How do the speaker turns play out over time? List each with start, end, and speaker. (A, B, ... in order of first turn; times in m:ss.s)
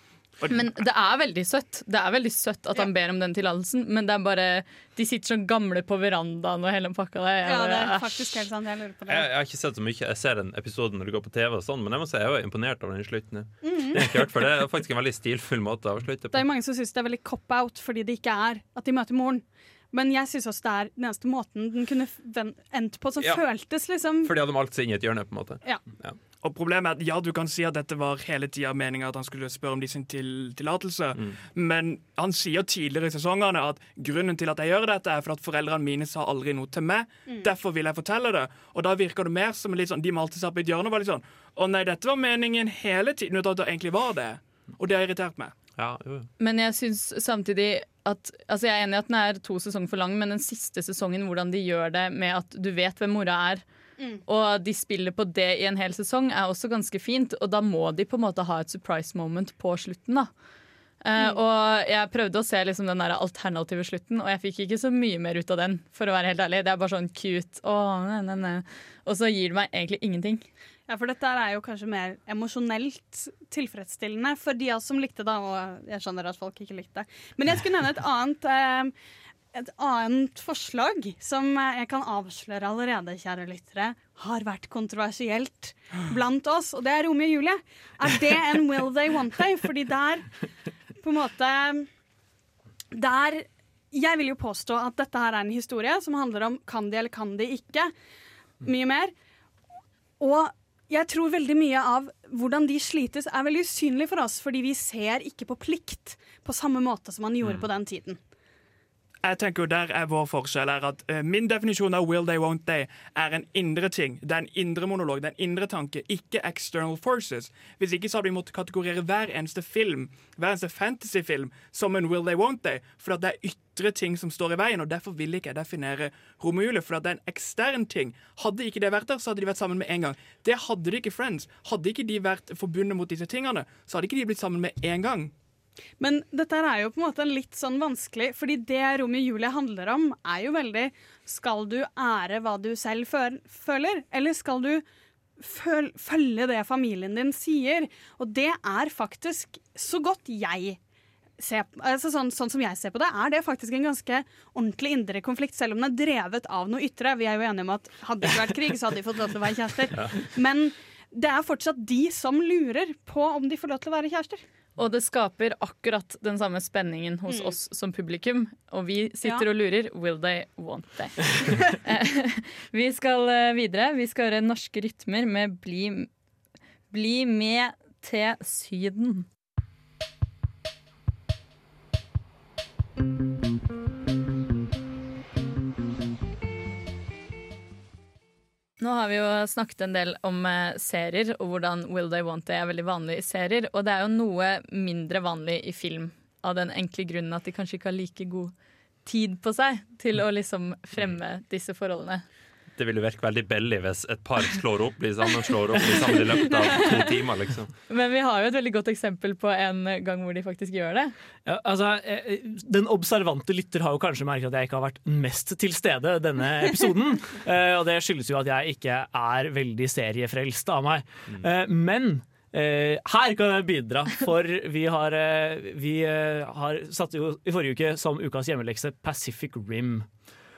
0:00.4-0:00.6 A
0:00.5-0:08.5 B
0:07.4-0:09.3 C
0:09.1-0:16.4 D
0:13.6-0:14.2 C
0:16.3-0:24.3 C
0:24.2-0:26.2 D
0:26.4-0:45.5 A
0:45.8-0:46.3 D
0:46.4-0:53.6 B
0:54.3-1:00.3 B
1:01.0-1:10.4 B
1:10.9-1:18.9 C
1:19.5-1:30.4 C
1:31.0-1:31.9 C
1:32.9-1:37.9 C
1:38.6-1:39.1 C
1:40.2-1:48.2 C
1:49.2-2:15.3 A
2:16.0-2:24.8 C
2:25.4-2:30.8 C
2:31.4-2:44.4 C
2:44.8-2:56.1 B
2:47.3-2:47.6 C
2:56.9-2:59.3 B
3:08.8-3:18.5 B
3:19.0-3:22.2 B
3:22.8-3:27.7 D
3:27.9-3:31.1 B
3:31.4-3:50.1 E